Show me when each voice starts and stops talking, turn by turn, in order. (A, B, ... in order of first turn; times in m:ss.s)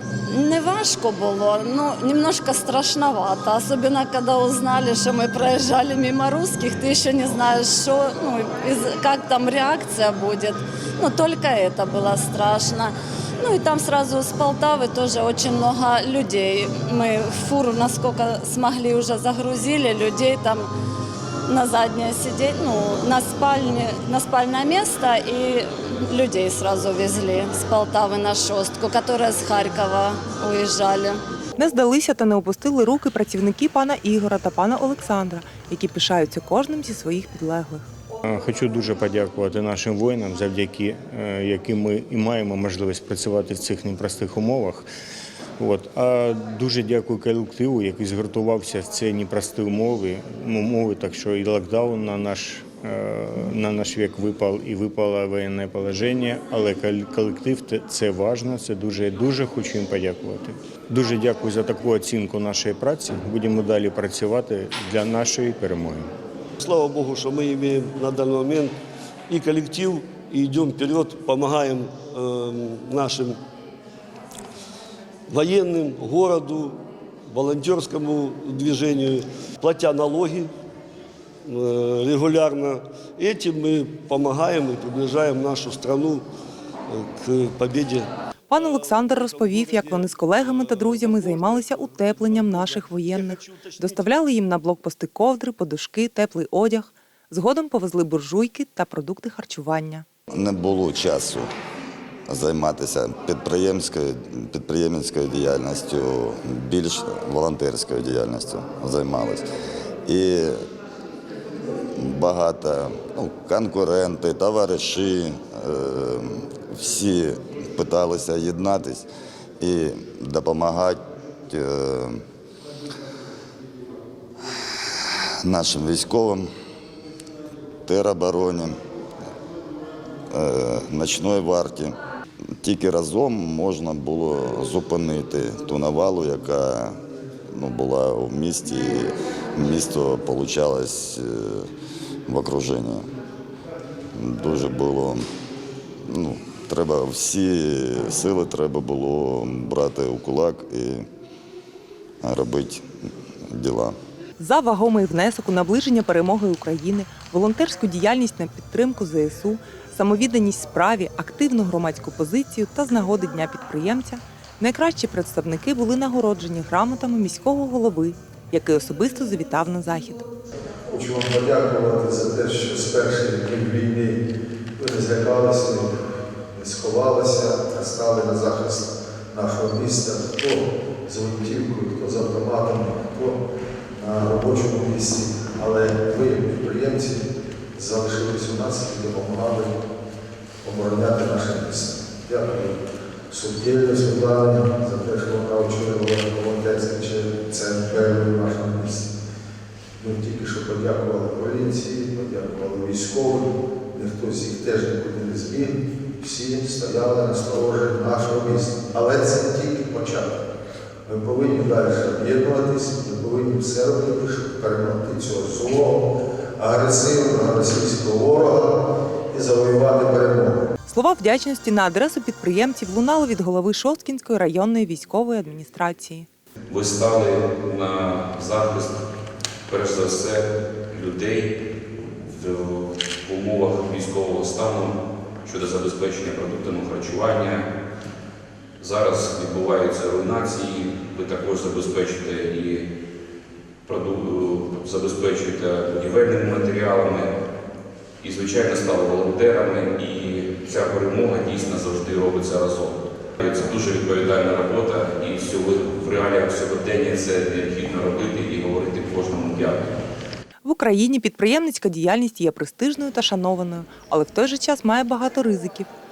0:00.3-0:20.7 A
0:21.5-0:31.2 A
0:31.6-0:37.9 B
0:38.2-0:44.9 C
0:45.6-1:06.1 C
1:06.6-1:13.4 D
1:15.3-1:20.5 D
1:21.4-1:26.2 D
1:26.9-1:34.1 D
1:28.5-1:40.1 B
1:40.3-1:41.5 E
1:42.3-1:49.5 E
1:50.1-1:50.7 E
1:51.9-1:59.1 E
1:59.6-2:02.2 E
2:04.9-2:06.5 E
2:07.8-2:08.8 E
2:10.3-2:12.0 E
2:12.6-2:17.0 E
2:17.5-2:21.7 E
2:22.3-2:23.1 E
2:24.2-2:25.3 E
2:26.0-2:31.1 E
2:32.2-2:32.8 E
2:33.5-2:34.0 E
2:34.4-2:50.2 B
2:50.9-2:54.2 F
2:54.8-2:55.9 F
2:56.5-3:03.4 F
3:03.9-3:09.7 F
3:10.6-3:12.8 F
3:13.3-3:19.1 F
3:20.0-3:30.3 F
3:31.1-3:36.0 F
3:36.6-3:38.7 F
3:39.3-3:40.6 F
3:40.9-3:46.3 B
3:46.7-3:49.0 G
3:49.7-3:57.7 G
3:58.8-4:02.9 G
4:03.9-4:07.3 G
4:08.2-4:19.9 G
4:20.6-4:25.9 B